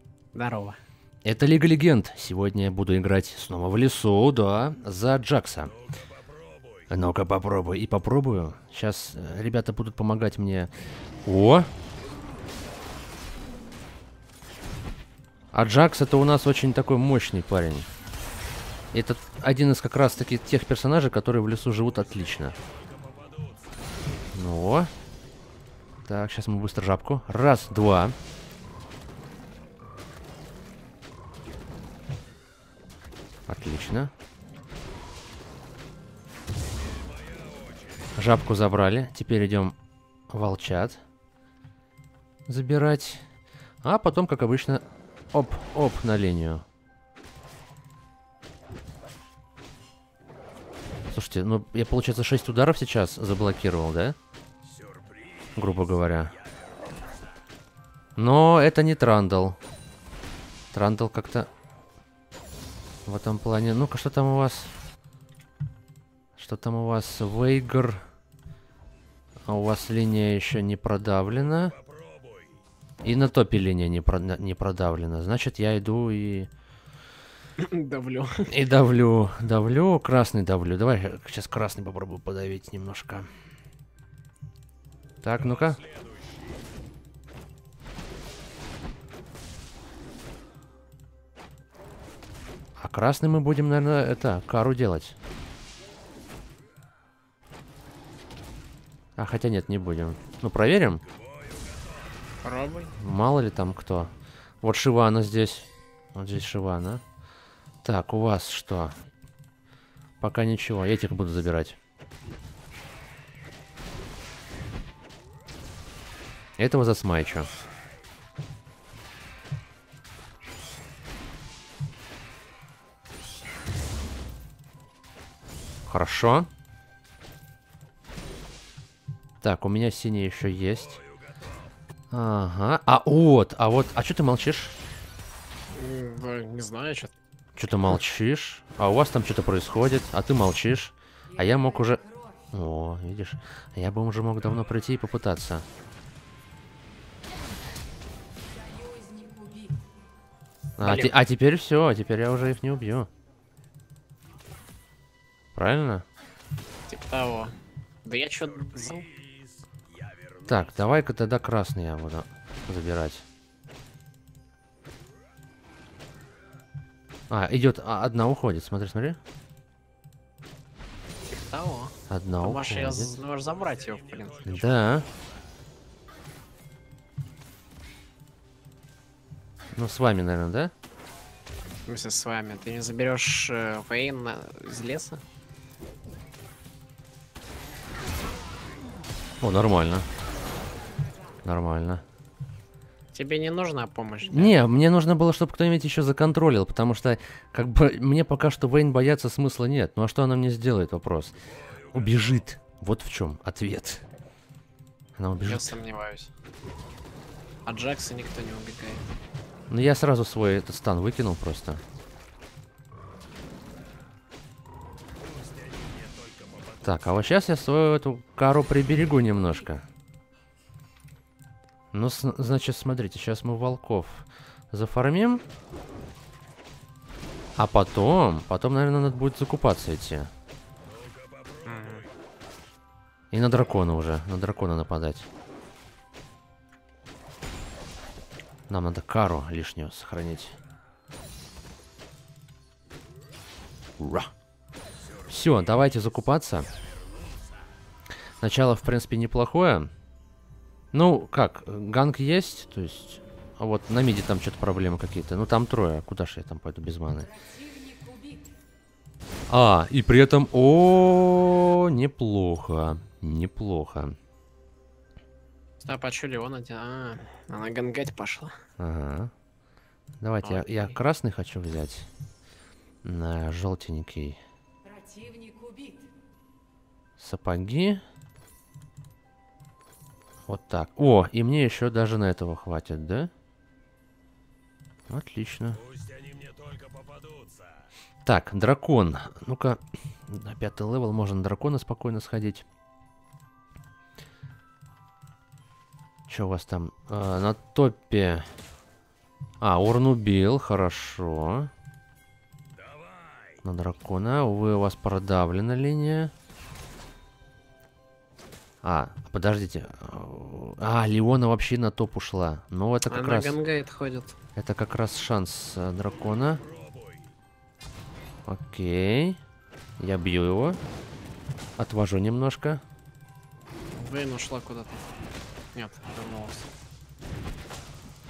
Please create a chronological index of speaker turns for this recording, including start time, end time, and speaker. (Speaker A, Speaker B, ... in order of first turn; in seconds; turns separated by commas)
Speaker A: 0.3-0.8, Speaker B: 1.2-5.8, Speaker B: 6.9-10.7, Speaker B: 11.3-11.7, Speaker B: 15.5-17.9, Speaker B: 18.9-22.6, Speaker B: 24.3-24.9, Speaker B: 26.1-28.2, Speaker B: 33.5-34.1, Speaker B: 38.2-39.8, Speaker B: 40.3-41.0, Speaker B: 42.5-43.3, Speaker B: 43.8-44.8, Speaker B: 45.3-46.6, Speaker B: 51.1-54.2, Speaker B: 55.6-56.4, Speaker B: 58.2-59.6, Speaker B: 60.7-61.5, Speaker B: 63.1-64.7, Speaker B: 66.4-68.0, Speaker B: 69.5-71.8, Speaker B: 73.0-76.5, Speaker A: 77.6-78.5, Speaker B: 78.5-83.3, Speaker B: 85.2-85.9, Speaker B: 92.8-95.2, Speaker B: 99.2-101.0, Speaker A: 102.4-102.9, Speaker B: 103.0-107.0, Speaker B: 107.8-109.0, Speaker B: 110.2-111.8, Speaker B: 116.6-117.5, Speaker B: 125.9-126.5, Speaker B: 129.4-131.0, Speaker B: 132.1-134.8, Speaker A: 135.7-137.1, Speaker B: 137.6-145.7, Speaker B: 150.8-153.1, Speaker A: 150.8-151.1, Speaker B: 155.6-156.0, Speaker A: 156.9-159.1, Speaker B: 160.5-163.2, Speaker B: 167.3-169.2, Speaker A: 171.3-174.7, Speaker B: 172.1-173.2, Speaker B: 174.4-175.1, Speaker B: 179.8-180.7, Speaker A: 181.9-185.2, Speaker B: 189.4-190.1, Speaker B: 191.4-192.0, Speaker A: 193.1-194.6, Speaker B: 194.3-204.1, Speaker B: 205.2-205.8, Speaker A: 205.4-206.3, Speaker A: 207.7-209.1, Speaker B: 209.7-211.8, Speaker B: 216.8-219.8, Speaker B: 221.9-225.4, Speaker B: 227.6-230.3, Speaker A: 231.6-232.1, Speaker B: 233.3-235.3, Speaker B: 238.7-240.6, Speaker B: 244.0-244.3, Speaker B: 245.3-246.7, Speaker B: 248.4-249.9, Speaker B: 250.9-257.3, Speaker B: 259.5-264.2, Speaker A: 265.8-268.5, Speaker B: 268.8-269.3, Speaker B: 270.2-272.1, Speaker A: 270.4-271.0, Speaker B: 273.0-274.4, Speaker B: 277.2-278.0, Speaker B: 280.5-283.3, Speaker B: 285.1-285.9, Speaker B: 288.2-292.6, Speaker B: 296.3-298.5, Speaker B: 299.6-301.7, Speaker B: 303.6-306.3, Speaker B: 308.8-313.6, Speaker A: 313.1-314.4, Speaker B: 314.6-316.6, Speaker B: 318.5-319.4, Speaker B: 320.0-320.8, Speaker B: 321.8-322.8, Speaker A: 324.0-325.1, Speaker A: 325.7-326.7